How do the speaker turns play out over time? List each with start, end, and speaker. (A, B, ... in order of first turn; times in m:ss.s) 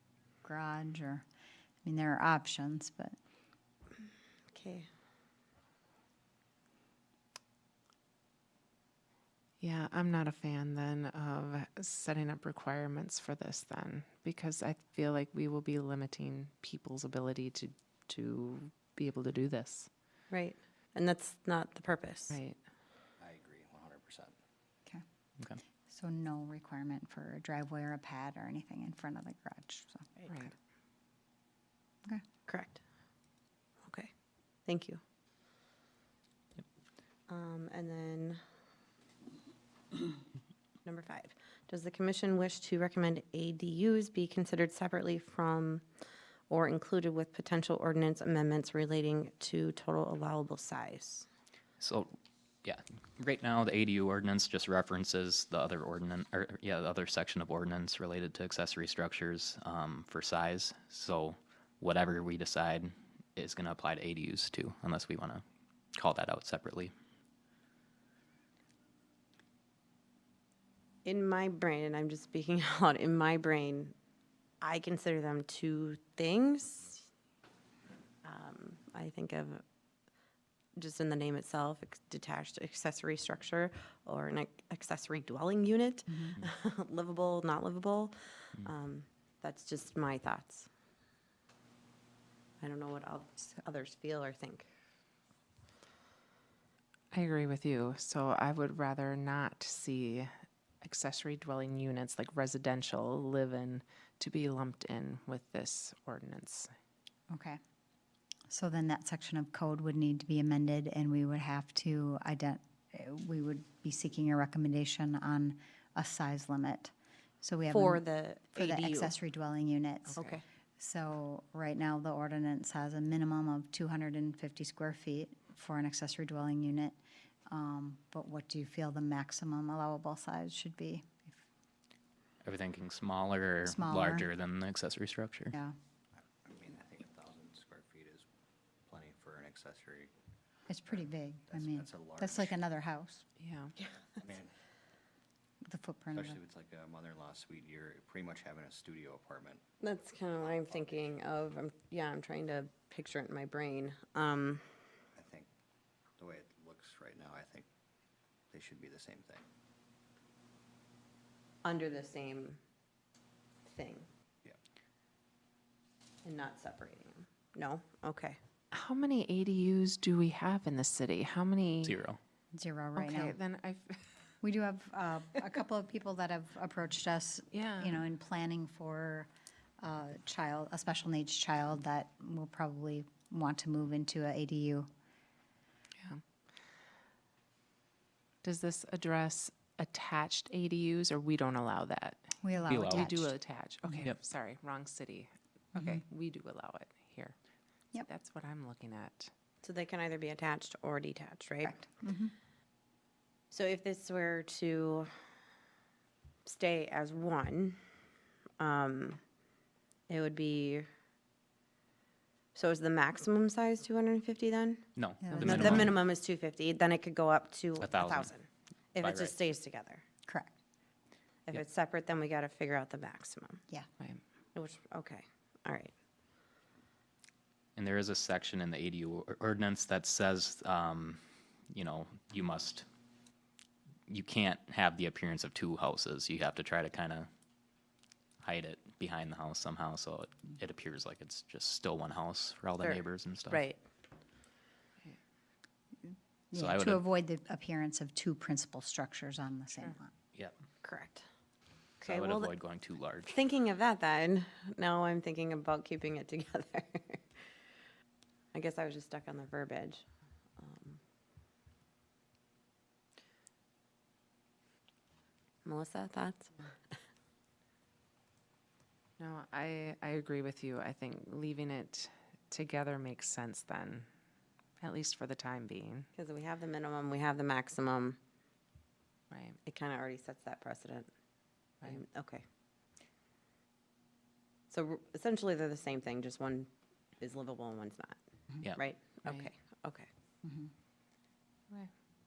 0:00.4-0:01.2 A
0:01.8-0:03.2 A
0:04.5-0:04.9 B
0:09.6-0:19.9 C
0:20.3-0:22.4 B
0:22.3-0:22.6 C
0:23.2-0:24.4 D
0:25.9-0:30.1 A
0:30.3-0:30.5 C
0:32.5-0:32.8 B
0:33.8-0:34.1 B
0:34.6-0:35.0 B
0:37.3-0:38.4 B
0:40.8-0:45.8 B
0:46.5-0:51.2 B
0:51.8-1:06.9 E
1:11.0-1:14.0 B
1:14.6-1:17.1 B
1:18.2-1:19.6 B
1:20.8-1:30.7 B
1:32.6-1:34.7 B
1:37.1-1:46.7 C
1:47.3-1:47.6 A
1:48.5-1:58.0 A
1:57.7-1:59.1 B
1:58.5-2:00.2 A
2:00.2-2:00.4 C
2:00.2-2:00.4 B
2:00.8-2:07.0 A
2:07.5-2:11.4 A
2:12.4-2:15.5 E
2:13.7-2:14.3 A
2:16.2-2:18.2 D
2:18.9-2:20.1 D
2:20.7-2:23.2 A
2:21.5-2:22.6 D
2:23.4-2:23.7 C
2:24.2-2:24.5 D
2:25.6-2:26.4 A
2:26.2-2:29.6 D
2:29.8-2:34.7 B
2:35.2-2:35.5 D
2:36.2-2:37.7 D
2:38.5-2:39.5 D
2:41.6-2:42.6 B
2:43.7-2:44.1 B
2:46.2-2:48.4 B
2:48.7-2:52.0 C
2:51.8-2:52.2 E
2:52.5-2:53.4 A
2:53.0-2:54.2 C
2:54.4-3:04.9 A
2:57.5-2:58.0 C
3:08.4-3:17.4 C
3:12.4-3:13.3 A
3:12.7-3:13.2 E
3:15.8-3:16.0 A
3:18.1-3:19.3 C
3:19.6-3:21.8 B
3:21.6-3:22.3 A
3:23.5-3:25.1 B
3:26.4-3:27.8 B
3:28.6-3:29.2 B
3:30.1-3:30.9 B
3:32.6-3:40.0 B
3:35.0-3:36.0 E
3:35.2-3:35.9 A
3:37.8-3:38.3 E
3:39.0-3:39.4 E
3:40.3-3:40.5 A
3:41.5-3:43.6 B
3:44.6-3:45.9 B
3:47.8-3:52.9 E
3:54.1-3:57.3 E
3:58.4-4:03.6 E
4:02.8-4:03.8 B
4:06.1-4:10.1 A
4:06.6-4:07.0 E
4:10.8-4:11.2 B
4:12.0-4:12.5 B
4:12.0-4:13.4 E
4:13.3-4:17.5 B
4:18.5-4:20.0 B
4:20.6-4:21.0 B
4:25.6-4:27.0 B
4:29.2-4:34.1 C
4:34.8-4:36.1 C
4:36.2-4:38.2 B
4:39.3-4:39.6 C
4:39.7-4:41.1 B
4:41.8-4:42.4 B
4:44.7-4:46.7 B
4:47.2-4:48.2 B
4:48.8-4:50.1 B
4:49.2-4:49.5 C
4:50.4-4:50.7 A